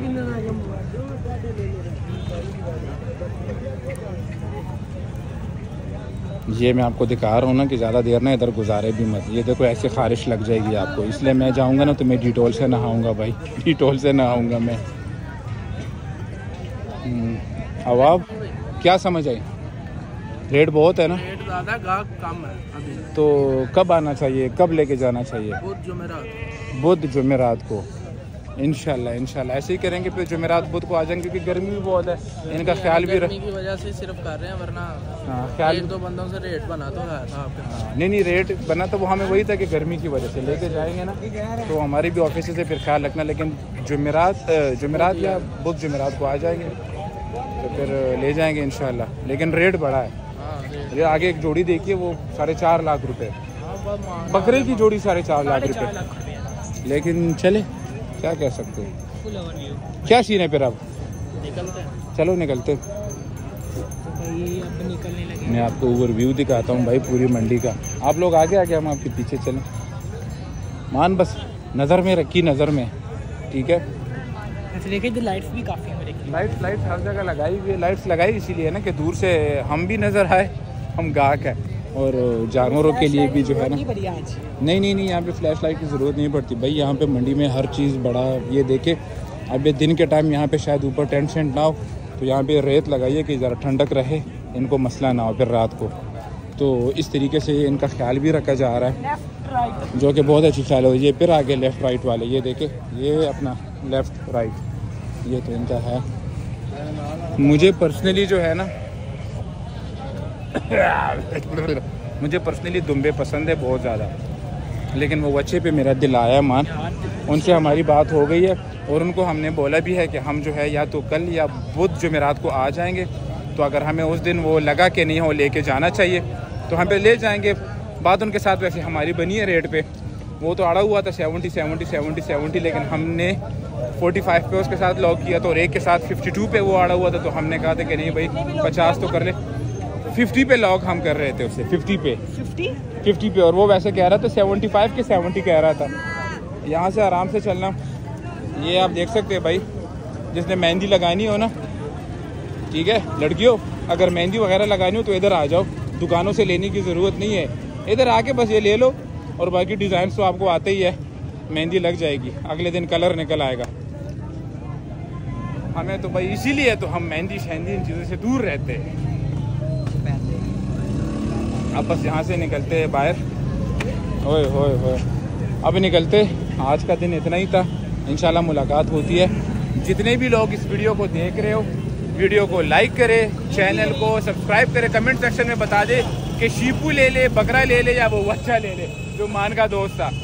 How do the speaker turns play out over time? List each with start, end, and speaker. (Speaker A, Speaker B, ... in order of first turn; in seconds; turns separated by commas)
Speaker A: 6.5-14.8, Speaker A: 17.0-18.2, Speaker B: 17.9-18.6, Speaker A: 18.8-19.4, Speaker A: 20.5-21.2, Speaker B: 21.1-23.1, Speaker A: 23.1-25.6, Speaker B: 25.6-26.4, Speaker A: 26.8-27.9, Speaker A: 28.6-33.3, Speaker B: 32.5-37.7, Speaker A: 35.3-35.9, Speaker A: 37.6-46.8, Speaker C: 41.3-41.6, Speaker B: 44.9-45.5, Speaker A: 47.6-50.1, Speaker B: 50.4-51.1, Speaker A: 50.9-53.4, Speaker B: 53.6-54.9, Speaker A: 54.3-55.9, Speaker C: 55.4-56.6, Speaker A: 56.8-57.7, Speaker A: 58.2-58.9, Speaker C: 59.2-60.1, Speaker A: 60.0-60.8, Speaker B: 61.4-62.0, Speaker A: 62.1-62.8, Speaker C: 64.0-65.8, Speaker A: 65.5-69.6, Speaker A: 70.9-72.9, Speaker A: 73.5-73.8, Speaker C: 74.7-76.6, Speaker A: 76.3-83.8, Speaker C: 82.6-84.4, Speaker A: 84.6-89.0, Speaker A: 89.5-95.9, Speaker A: 96.6-99.0, Speaker C: 99.0-99.9, Speaker A: 99.9-104.6, Speaker A: 105.2-106.0, Speaker A: 107.4-108.7, Speaker A: 110.5-114.1, Speaker A: 114.9-116.7, Speaker C: 116.7-117.9, Speaker A: 117.3-129.9, Speaker A: 130.4-133.4, Speaker A: 134.0-139.4, Speaker C: 138.2-139.2, Speaker A: 140.1-142.2, Speaker C: 142.3-142.8, Speaker A: 143.0-145.9, Speaker A: 146.6-147.8, Speaker A: 148.6-149.6, Speaker A: 150.3-151.5, Speaker A: 152.7-161.0, Speaker A: 161.5-163.7, Speaker A: 165.7-168.9, Speaker A: 171.7-173.2, Speaker A: 174.2-175.0, Speaker A: 175.6-190.1, Speaker C: 183.5-184.1